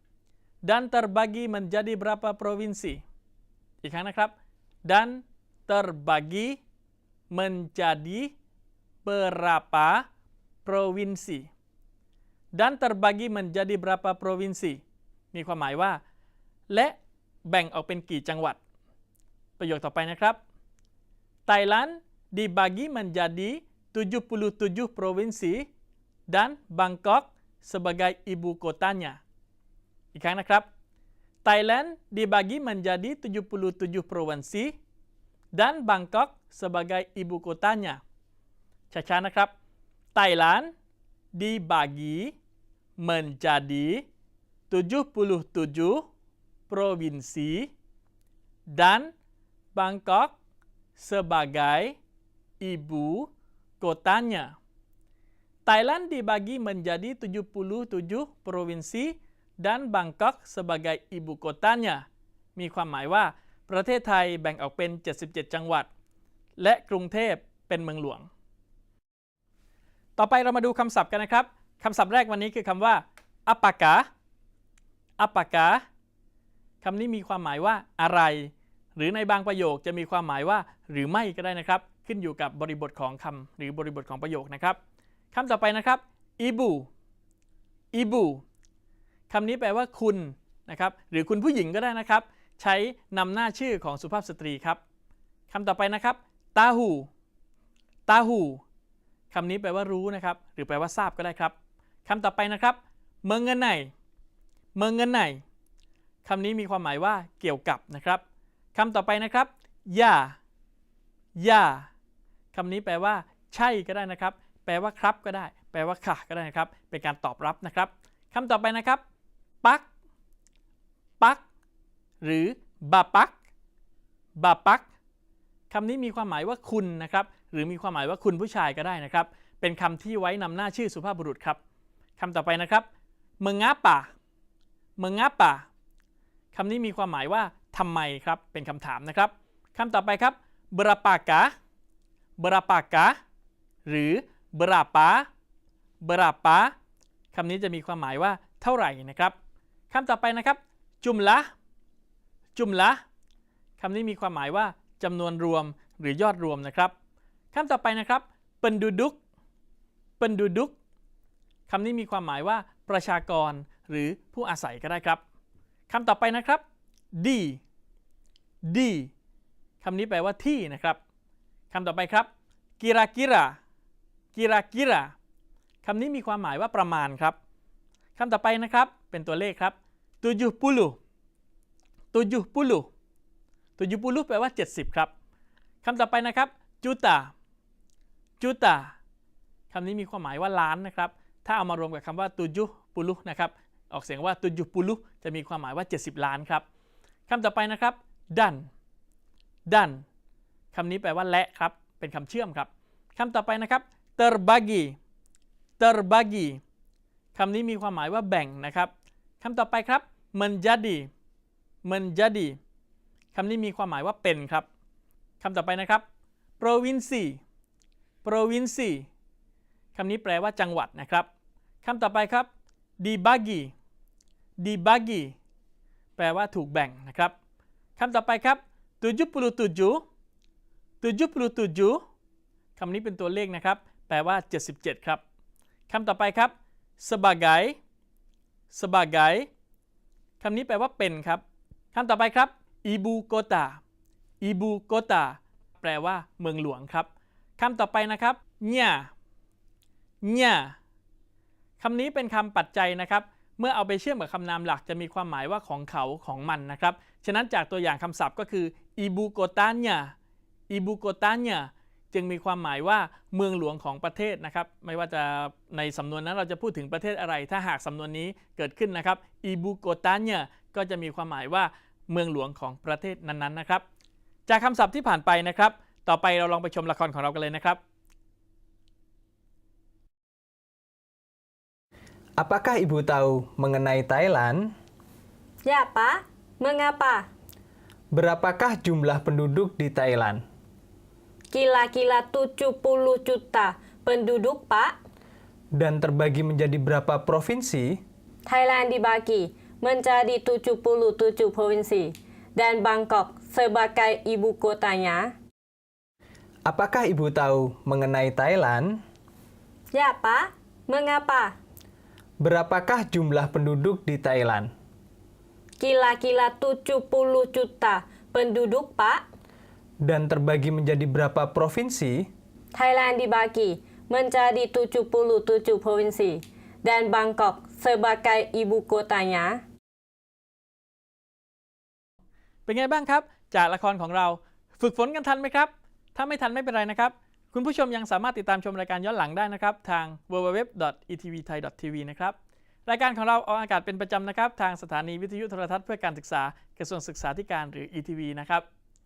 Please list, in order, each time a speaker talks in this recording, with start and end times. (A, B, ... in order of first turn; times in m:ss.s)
0:00.6-0:03.0 A
0:03.8-0:04.3 A
0:04.8-0:06.6 A
0:07.3-0:08.3 A
0:09.0-0:10.1 A
0:10.6-0:11.5 A
0:12.5-0:16.0 A
0:16.7-0:18.6 A
0:19.6-0:20.4 A
0:21.5-0:25.7 A
0:26.3-0:29.2 A
0:30.1-0:30.7 A
0:31.4-0:34.8 A
0:35.5-0:38.0 A
0:38.9-0:39.5 A
0:40.2-0:40.7 A
0:41.3-0:42.4 A
0:43.0-0:44.0 A
0:44.7-0:46.0 A
0:46.7-0:47.7 A
0:48.7-0:49.1 A
0:49.7-0:50.4 A
0:51.0-0:52.0 A
0:52.6-0:53.3 A
0:53.8-0:54.6 A
0:55.7-1:02.0 A
1:02.6-1:05.9 A
1:06.6-1:08.3 A
1:10.2-1:14.1 A
1:15.2-1:15.8 A
1:16.8-1:24.8 A
1:25.3-1:26.9 A
1:27.9-1:28.4 A
1:29.3-1:34.8 A
1:35.5-1:37.1 A
1:38.1-1:38.6 A
1:39.3-1:43.9 A
1:44.8-1:45.4 A
1:46.2-1:48.2 A
1:48.8-1:50.4 A
1:51.4-1:51.9 A
1:52.5-1:59.0 A
2:02.2-2:03.3 A
2:04.4-2:04.9 A
2:05.7-2:11.6 A
2:12.2-2:12.9 A
2:13.4-2:14.1 A
2:15.0-2:15.7 A
2:16.5-2:21.5 A
2:22.4-2:23.2 A
2:23.9-2:25.3 A
2:26.0-2:26.8 A
2:27.3-2:29.4 A
2:29.9-2:31.5 A
2:32.6-2:33.0 A
2:33.8-2:36.9 A
2:37.5-2:39.2 A
2:40.2-2:40.7 A
2:41.7-2:45.2 A
2:45.9-2:46.6 A
2:47.1-2:47.6 A
2:48.6-2:49.1 A
2:49.8-2:51.0 A
2:51.7-2:53.6 A
2:54.3-2:55.1 A
2:55.8-2:57.4 A
2:58.2-3:01.0 A
3:02.1-3:02.9 A
3:03.8-3:05.1 A
3:05.8-3:07.3 A
3:08.4-3:09.0 A
3:09.7-3:16.6 A
3:17.3-3:18.7 A
3:19.7-3:20.0 A
3:20.7-3:25.0 A
3:25.8-3:26.6 A
3:27.4-3:31.1 A
3:31.8-3:32.6 A
3:33.3-3:34.7 A
3:35.4-3:36.0 A
3:36.6-3:37.4 A
3:38.2-3:39.1 A
3:40.0-3:41.3 A
3:41.8-3:42.5 A
3:43.0-3:43.7 A
3:44.6-3:45.4 A
3:46.2-3:47.3 A
3:48.0-3:50.0 A
3:51.0-3:52.0 A
3:52.8-3:55.2 A
3:55.9-3:57.8 A
3:58.7-3:59.5 A
4:00.4-4:03.8 A
4:04.4-4:09.1 A
4:10.2-4:10.8 A
4:11.8-4:20.1 A
4:20.7-4:33.8 A
4:34.5-4:37.8 A
4:42.4-4:44.7 B
4:45.6-4:47.3 C
4:48.1-4:50.4 B
4:51.5-4:55.0 C
4:55.7-4:58.0 B
4:58.5-5:05.3 C
5:06.7-5:09.0 B
5:09.9-5:11.6 C
5:12.4-5:14.7 B
5:15.8-5:19.3 C
5:20.0-5:22.3 B
5:22.7-5:29.6 C
5:32.7-5:48.6 A